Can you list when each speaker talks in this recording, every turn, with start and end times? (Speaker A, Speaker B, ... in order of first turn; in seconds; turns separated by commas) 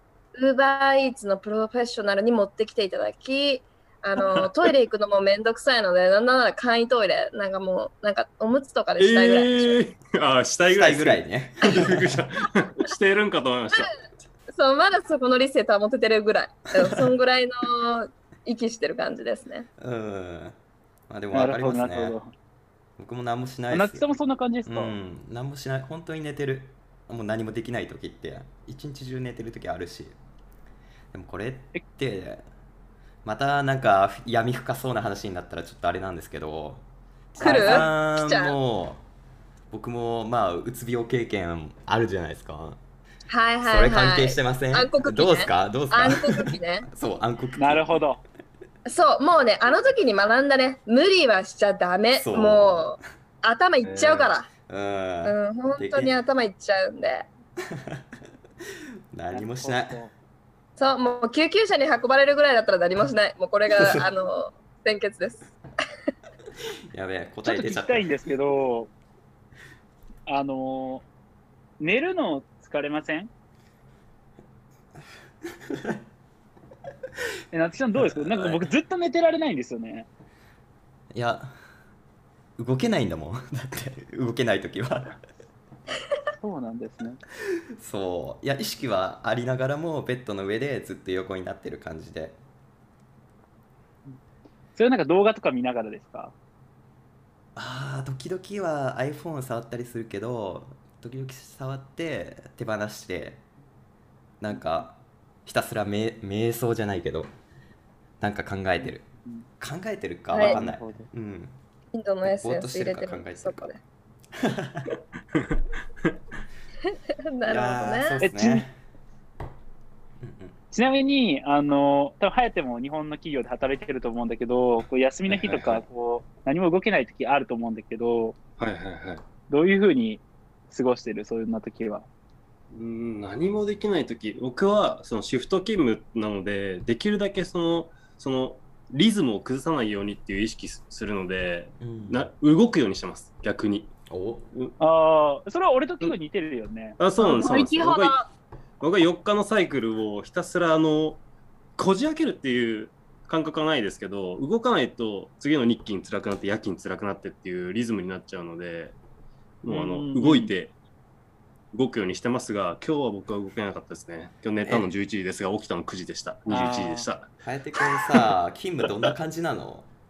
Speaker A: 0.3-9.8, Speaker B: 9.0-14.0, Speaker C: 10.7-12.2, Speaker A: 14.5-19.7, Speaker C: 19.8-20.6, Speaker C: 21.1-22.1, Speaker D: 21.3-22.3, Speaker C: 23.0-24.1, Speaker D: 23.7-24.9, Speaker C: 24.6-30.1, Speaker C: 31.1-32.4, Speaker C: 33.2-36.8, Speaker C: 37.3-39.0, Speaker D: 37.4-37.9, Speaker A: 37.4-38.5, Speaker C: 39.7-42.8, Speaker A: 43.3-46.9, Speaker C: 43.6-48.0, Speaker D: 47.6-48.2, Speaker A: 48.9-54.5, Speaker C: 52.1-53.0, Speaker B: 53.8-54.3, Speaker C: 54.7-56.1, Speaker A: 55.2-57.3, Speaker C: 57.7-58.0, Speaker C: 59.1-60.0, Speaker D: 59.3-60.1, Speaker A: 60.8-65.5, Speaker C: 63.7-64.0, Speaker C: 66.9-68.1, Speaker D: 67.4-68.9, Speaker D: 70.2-71.0, Speaker D: 71.8-73.3, Speaker C: 75.7-76.0, Speaker D: 77.5-80.1, Speaker C: 78.2-78.6, Speaker C: 81.1-81.5, Speaker C: 82.6-85.2, Speaker D: 86.4-87.2, Speaker C: 87.8-92.4, Speaker D: 94.8-96.3, Speaker C: 97.5-103.4, Speaker C: 104.4-107.3, Speaker C: 108.2-109.0, Speaker D: 108.8-109.5, Speaker C: 109.6-111.6, Speaker A: 110.3-110.6, Speaker D: 110.3-111.1, Speaker A: 111.9-113.8, Speaker C: 112.2-113.7, Speaker C: 114.3-114.9, Speaker A: 116.9-118.2, Speaker C: 117.5-118.8, Speaker D: 118.2-118.6, Speaker C: 120.2-120.5, Speaker D: 120.7-128.4, Speaker B: 125.3-125.8, Speaker B: 128.6-129.2, Speaker D: 129.5-132.1, Speaker B: 132.7-143.9, Speaker C: 141.8-142.3, Speaker C: 144.1-144.5, Speaker D: 144.8-147.0, Speaker B: 147.0-148.2, Speaker A: 147.2-148.3, Speaker B: 148.8-151.2, Speaker B: 151.8-158.9, Speaker B: 159.6-160.7, Speaker D: 159.7-160.5, Speaker B: 161.7-167.3, Speaker D: 166.5-167.1, Speaker C: 167.4-169.9